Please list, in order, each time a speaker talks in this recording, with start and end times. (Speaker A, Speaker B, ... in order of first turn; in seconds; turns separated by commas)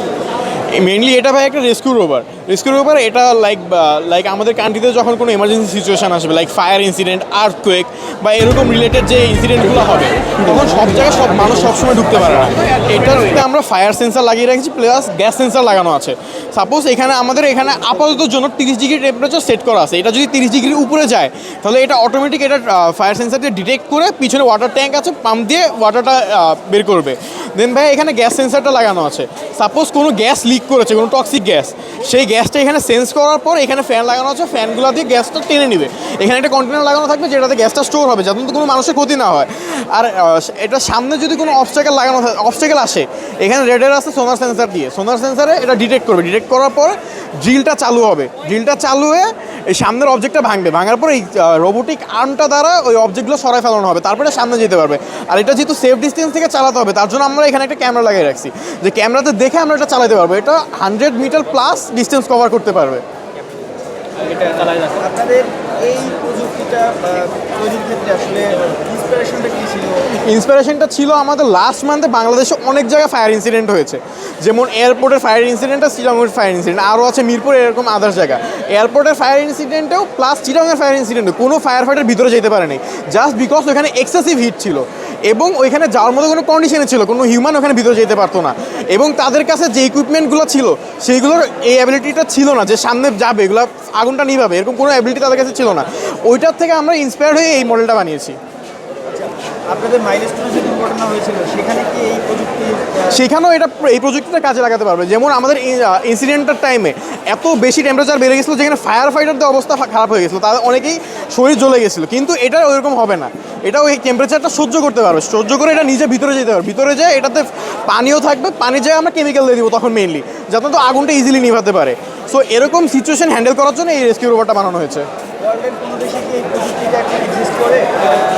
Speaker A: 0.7-63.0, Speaker B: 64.2-70.2, Speaker A: 70.1-98.4, Speaker B: 99.5-103.1, Speaker A: 103.0-125.1, Speaker B: 125.4-128.0